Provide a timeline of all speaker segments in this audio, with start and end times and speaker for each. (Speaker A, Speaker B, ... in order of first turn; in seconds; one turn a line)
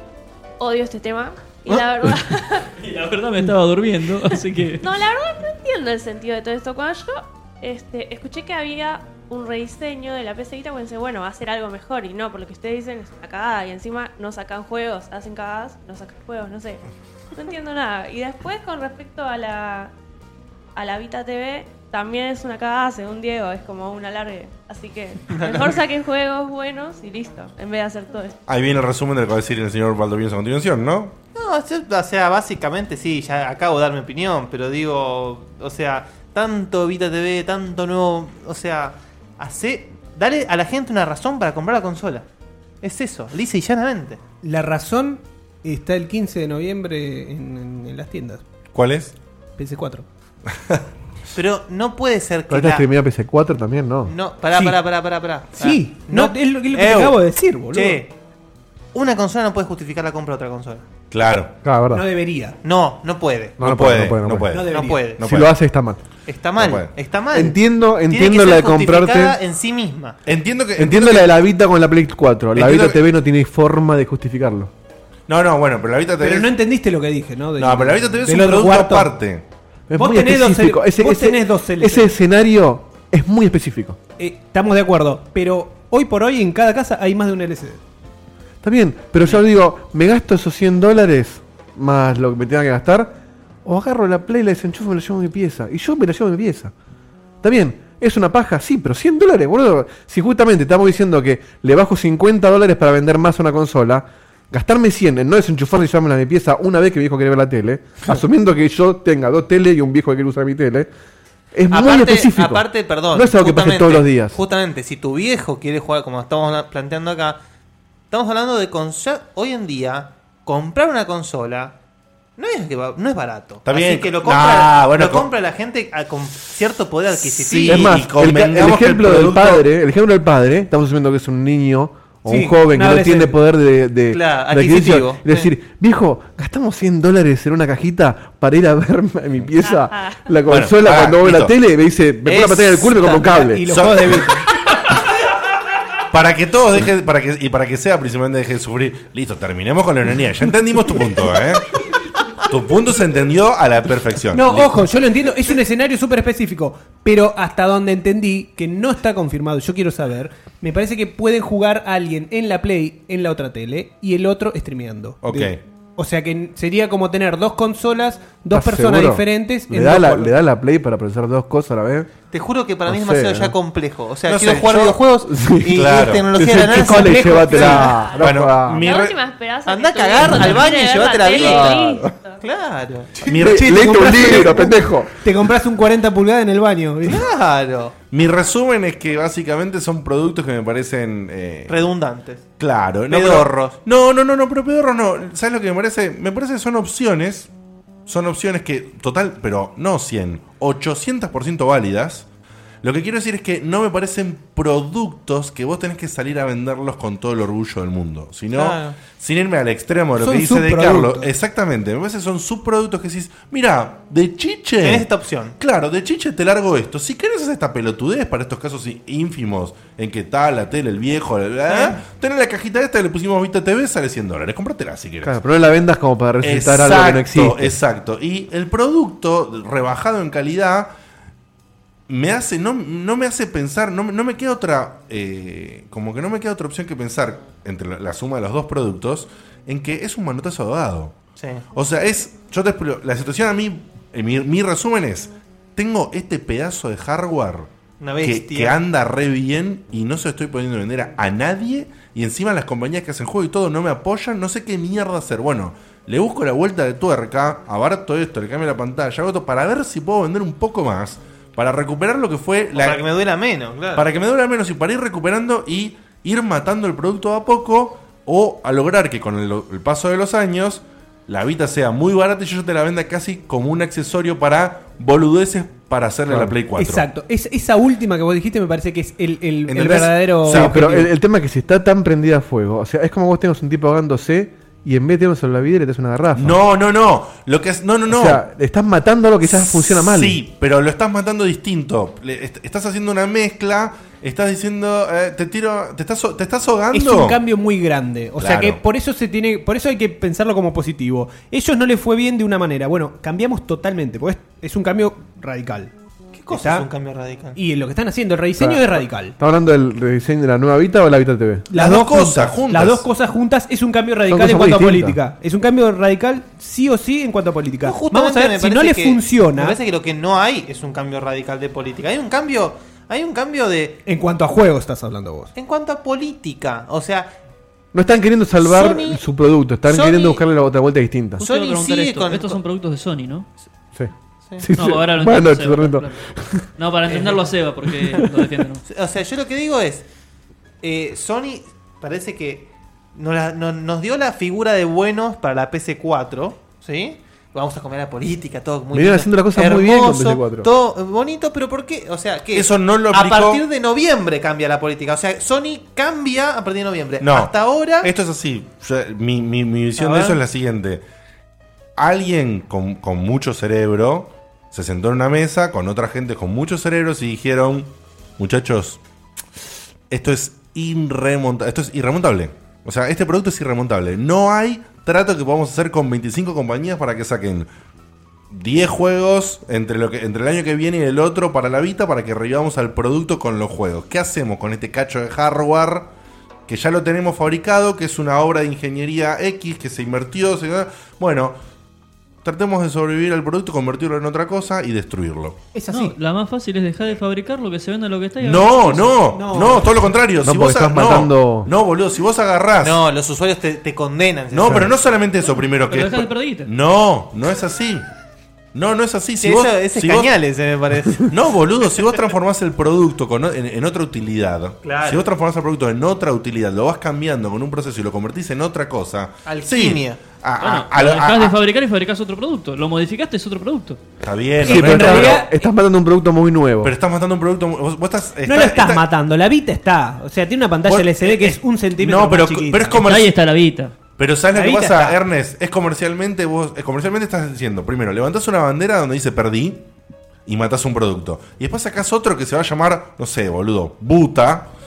Speaker A: 0.6-2.7
Speaker B: 2.8-4.8
Speaker A: 4.8-16.8
Speaker A: 17.3-19.9
Speaker A: 20.7-28.4
Speaker C: 25.3-25.8
Speaker D: 28.5-31.1
Speaker C: 31.3-42.2
Speaker C: 42.8-44.2
Speaker E: 44.4-48.4
Speaker D: 48.7-49.1
Speaker E: 49.6-50.0
Speaker D: 50.5-50.8
Speaker C: 51.3-52.9
Speaker F: 52.5-54.1
Speaker C: 54.1-57.2
Speaker E: 54.5-54.8
Speaker E: 55.5-58.0
Speaker C: 57.7-58.1
Speaker C: 58.9-60.8
Speaker D: 61.1-61.5
Speaker F: 61.6-62.0
Speaker E: 61.9-62.6
Speaker C: 62.6-63.6
Speaker F: 63.6-64.5
Speaker D: 63.6-65.6
Speaker E: 64.5-65.1
Speaker C: 64.7-65.2
Speaker F: 65.2-66.0
Speaker C: 66.3-70.2
Speaker D: 66.6-66.9
Speaker F: 67.3-69.4
Speaker D: 70.2-71.4
Speaker F: 70.8-74.7
Speaker D: 72.5-73.0
Speaker D: 75.3-76.5
Speaker E: 76.2-79.1
Speaker D: 77.6-79.4
Speaker F: 79.9-84.0
Speaker E: 79.9-82.1
Speaker E: 84.2-87.8
Speaker F: 88.6-96.7
Speaker F: 97.4-110.9
Speaker F: 111.5-114.3
Speaker C: 111.7-117.4
Speaker C: 118.1-121.7
Speaker C: 122.4-128.0
Speaker D: 123.7-125.3
Speaker D: 127.2-129.7
Speaker F: 127.7-143.7
Speaker E: 132.2-133.3
Speaker C: 134.1-135.5
Speaker A: 139.6-140.2
Speaker D: 140.5-141.5
Speaker C: 142.2-143.3
Speaker E: 143.2-144.4
Speaker D: 143.7-144.3
Speaker D: 146.1-151.7
Speaker D: 152.4-154.9
Speaker E: 154.3-170.3
Speaker D: 165.2-165.6
Speaker F: 168.5-172.1
Speaker C: 172.3-177.8
Speaker F: 172.8-173.5
Speaker D: 174.2-175.0
Speaker F: 175.2-178.8
Speaker D: 175.7-176.3
Speaker E: 176.6-177.9
Speaker D: 177.5-179.2
Speaker A: 177.9-182.4
Speaker C: 179.7-181.8
Speaker F: 181.3-182.1
Speaker C: 182.4-183.3
Speaker D: 183.2-184.7
Speaker E: 183.3-187.2
Speaker F: 183.3-185.1
Speaker C: 187.1-187.9
Speaker D: 188.1-191.7
Speaker C: 191.7-192.4
Speaker D: 192.6-197.5
Speaker C: 193.1-193.8
Speaker D: 198.1-202.2
Speaker D: 202.8-225.4
Speaker C: 208.5-209.0
Speaker E: 210.2-211.2
Speaker C: 214.8-215.6
Speaker C: 221.7-222.0
Speaker F: 225.2-227.7
Speaker D: 226.4-230.9
Speaker D: 232.1-241.1
Speaker C: 241.4-241.6
Speaker D: 241.7-263.0
Speaker C: 248.0-248.8
Speaker C: 262.7-264.1
Speaker D: 263.9-277.0
Speaker F: 276.3-276.5
Speaker E: 276.7-281.1
Speaker D: 279.7-280.9
Speaker F: 280.4-286.6
Speaker D: 286.3-288.4
Speaker F: 288.1-290.4
Speaker D: 289.4-297.4
Speaker E: 296.9-305.9
Speaker D: 298.4-298.8
Speaker C: 306.3-307.6
Speaker E: 306.5-306.9
Speaker E: 307.6-309.3
Speaker F: 308.6-311.7
Speaker E: 311.7-319.8
Speaker D: 311.7-313.0
Speaker F: 314.3-315.2
Speaker C: 317.8-324.0
Speaker E: 324.1-325.5
Speaker C: 325.6-327.3
Speaker F: 327.9-331.4
Speaker C: 328.6-329.2
Speaker C: 329.9-330.4
Speaker B: 331.4-333.5
Speaker C: 331.4-332.6
Speaker F: 333.9-336.6
Speaker B: 334.8-336.2
Speaker B: 336.8-338.8
Speaker C: 337.1-337.5
Speaker F: 338.1-338.4
Speaker C: 338.9-340.1
Speaker C: 340.8-358.1
Speaker F: 348.9-350.7
Speaker D: 352.5-353.6
Speaker D: 357.2-361.0
Speaker C: 360.0-360.4
Speaker D: 362.0-369.0
Speaker D: 370.1-377.7
Speaker D: 378.5-386.1
Speaker D: 386.7-391.6
Speaker D: 392.4-395.6
Speaker E: 395.7-396.1
Speaker B: 395.9-399.2
Speaker D: 398.4-403.0
Speaker E: 399.2-399.9
Speaker F: 400.4-401.7
Speaker C: 402.8-404.9
Speaker D: 404.5-408.1
Speaker B: 405.9-406.7
Speaker D: 408.7-410.3
Speaker C: 409.4-411.3
Speaker D: 411.2-421.6
Speaker C: 414.8-415.2
Speaker C: 419.4-420.2
Speaker B: 420.6-424.0
Speaker D: 424.2-425.4
Speaker E: 424.6-425.5
Speaker F: 424.6-426.9
Speaker D: 426.8-429.1
Speaker E: 428.4-433.0
Speaker D: 430.9-433.4
Speaker B: 432.9-433.9
Speaker D: 434.2-439.8
Speaker E: 434.5-435.2
Speaker D: 440.4-444.7